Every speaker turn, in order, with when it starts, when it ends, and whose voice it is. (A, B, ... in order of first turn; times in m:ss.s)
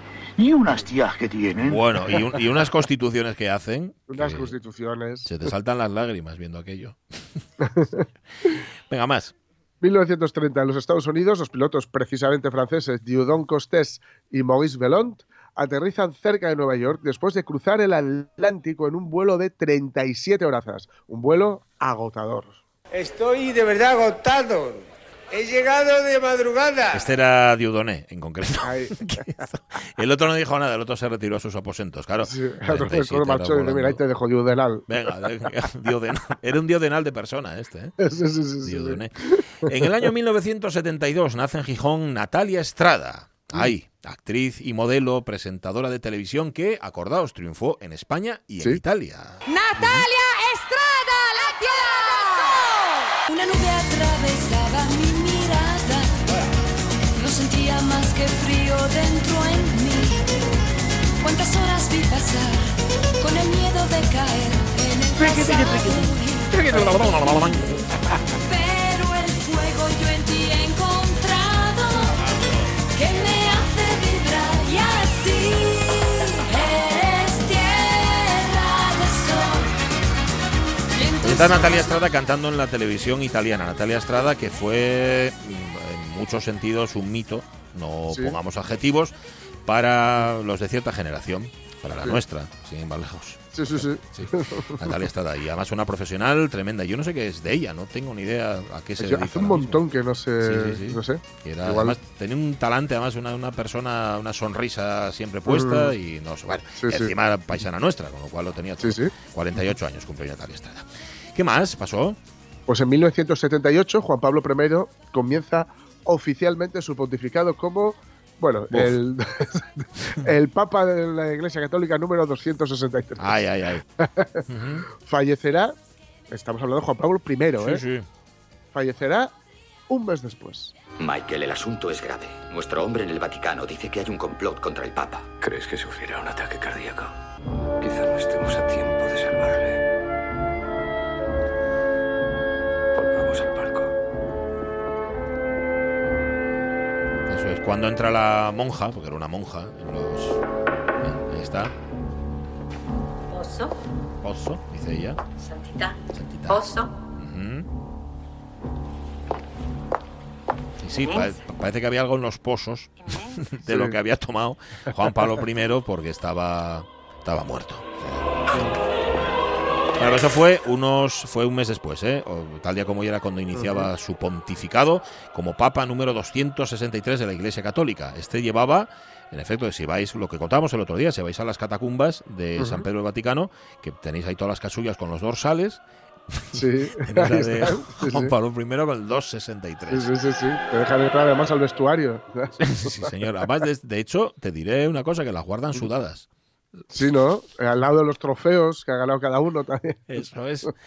0:00.4-0:02.3 A
0:01.6-0:04.5 B
0:04.1-0:05.4 C
0:05.2-0:07.0 B
0:07.6-0:08.0 C
0:07.8-0:09.3 B
0:09.8-0:22.6 C
0:22.9-0:27.1 D
0:26.9-0:34.0 B
0:28.6-0:29.4 C
0:32.2-0:34.9 C
0:34.9-0:38.0 B
0:38.0-0:39.9 C
0:38.6-0:50.0 B
0:49.5-0:56.2 E
0:57.2-1:00.3 E
1:01.2-1:07.6 E
1:05.2-1:07.7 B
1:08.4-1:12.3 E
1:12.9-1:19.7 E
1:20.9-1:22.0 E
1:21.2-1:29.1 B
1:28.1-1:28.4 C
1:29.7-1:39.8 B
1:33.5-1:35.0 C
1:39.0-1:42.0 C
1:40.4-1:52.2 B
1:45.5-1:45.9 C
1:46.8-1:47.1 C
1:48.8-1:49.1 C
1:52.7-2:03.4 C
1:58.7-1:59.0 B
2:03.2-2:03.9 B
2:04.0-2:05.8 C
2:04.5-2:04.8 B
2:06.3-2:07.8 C
2:07.6-2:08.1 B
2:08.7-2:09.3 C
2:09.9-2:10.7 C
2:11.0-2:15.3 F
2:15.4-2:17.1 G
2:17.8-2:19.8 G
2:22.9-2:23.9 G
2:27.3-2:30.4 B
2:31.0-2:31.8 B
2:33.3-2:33.7 E
2:34.2-2:35.2 B
2:35.4-2:36.0 E
2:36.1-2:37.7 B
2:36.5-2:36.8 E
2:40.8-2:48.7 B
2:43.6-2:44.0 C
2:50.0-3:05.8 B
2:53.6-2:53.9 C
3:02.6-3:02.9 C
3:06.3-3:10.1 B
3:06.5-3:08.3 C
3:09.9-3:13.3 C
3:12.6-3:16.3 B
3:16.9-3:20.0 C
3:20.1-3:20.7 B